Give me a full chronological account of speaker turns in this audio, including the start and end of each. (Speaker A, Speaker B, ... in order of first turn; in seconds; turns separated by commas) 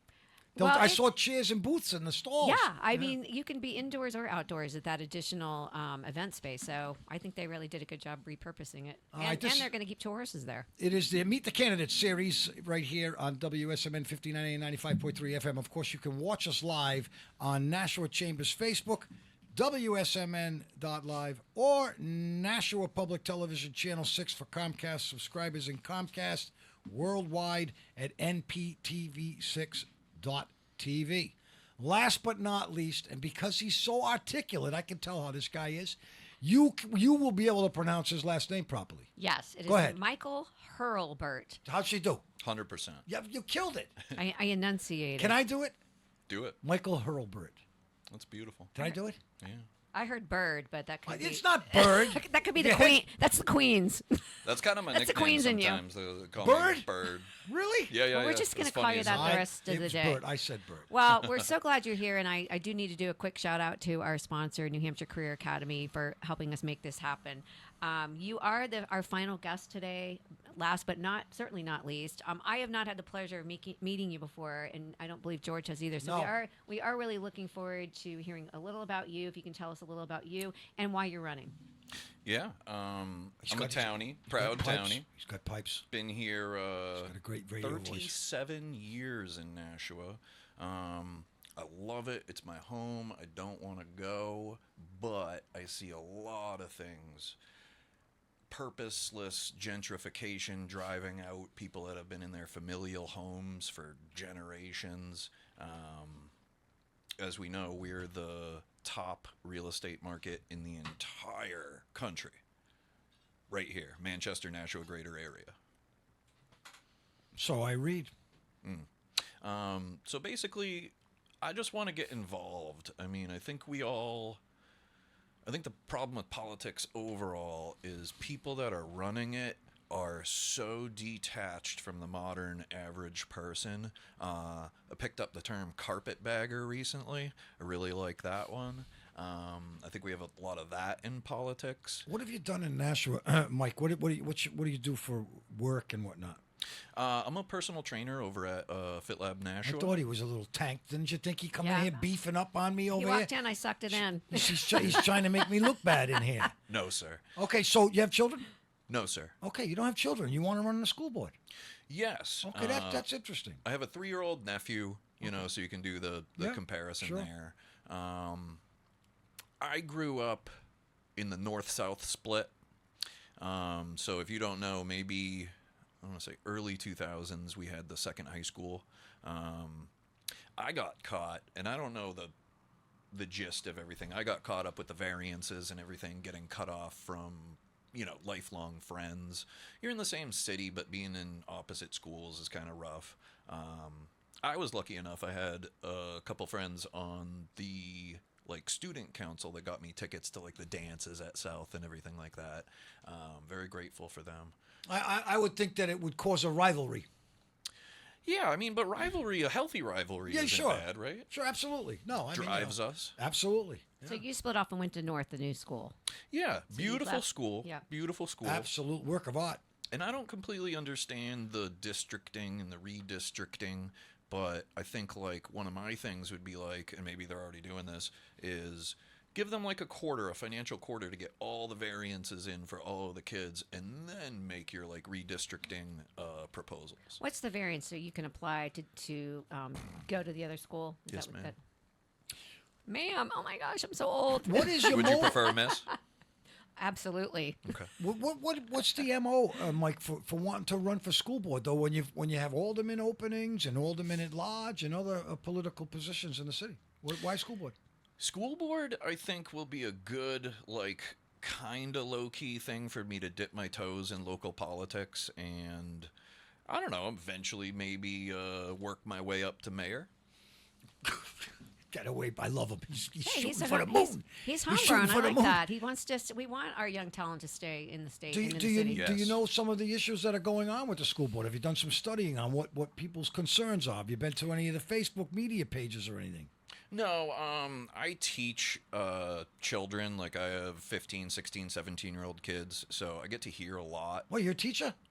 Speaker A: 0.6-1.0, Speaker B: 0.6-3.1, Speaker A: 2.4-10.7, Speaker B: 9.1-9.7, Speaker B: 10.8-39.1, Speaker A: 39.2-41.6, Speaker B: 39.7-40.0, Speaker B: 41.6-42.2, Speaker C: 42.4-43.0, Speaker B: 43.1-43.9, Speaker A: 44.1-45.4, Speaker B: 45.2-45.8, Speaker C: 46.3-46.6, Speaker B: 46.6-47.6, Speaker C: 48.1-48.7, Speaker B: 48.7-49.2, Speaker C: 49.4-49.6, Speaker A: 49.9-55.8, Speaker B: 51.0-53.0, Speaker C: 54.4-57.3, Speaker B: 56.4-58.0, Speaker C: 57.9-59.5, Speaker A: 58.1-60.2, Speaker B: 59.0-60.9, Speaker A: 60.9-81.5, Speaker B: 76.0-76.3, Speaker C: 82.2-85.0, Speaker B: 83.4-85.8, Speaker C: 85.9-97.4, Speaker B: 87.0-88.1, Speaker C: 98.5-106.3, Speaker C: 107.2-112.4, Speaker C: 113.5-115.5, Speaker B: 117.3-118.1, Speaker C: 119.4-124.4, Speaker C: 125.4-142.1, Speaker B: 142.1-146.4, Speaker C: 146.9-150.0, Speaker B: 149.6-153.3, Speaker A: 151.6-152.0, Speaker A: 152.9-155.6, Speaker B: 153.9-156.5, Speaker C: 156.7-157.2, Speaker B: 157.3-158.5, Speaker C: 158.9-159.3, Speaker B: 159.4-161.3, Speaker C: 161.9-163.1, Speaker B: 162.4-163.6, Speaker C: 163.6-168.6, Speaker B: 166.4-167.3, Speaker C: 169.6-170.5, Speaker C: 171.2-172.5, Speaker C: 173.4-179.9, Speaker C: 180.6-182.3, Speaker C: 183.1-204.5, Speaker B: 204.9-207.1, Speaker C: 208.2-211.3, Speaker B: 210.2-214.2, Speaker C: 212.3-213.2, Speaker A: 214.0-215.9, Speaker C: 216.3-218.7, Speaker A: 216.7-217.8, Speaker B: 218.4-219.6, Speaker C: 219.9-237.2, Speaker A: 237.2-241.6, Speaker C: 241.1-241.5, Speaker A: 242.9-245.9, Speaker B: 244.4-245.4, Speaker C: 244.9-245.9, Speaker A: 246.8-247.7, Speaker C: 247.7-247.9, Speaker B: 248.0-257.8, Speaker C: 258.2-266.1, Speaker C: 266.7-270.1, Speaker B: 271.0-271.3, Speaker B: 271.9-275.6, Speaker A: 273.2-279.1, Speaker B: 278.3-286.5, Speaker C: 278.9-279.4, Speaker C: 286.9-294.3, Speaker B: 294.3-294.9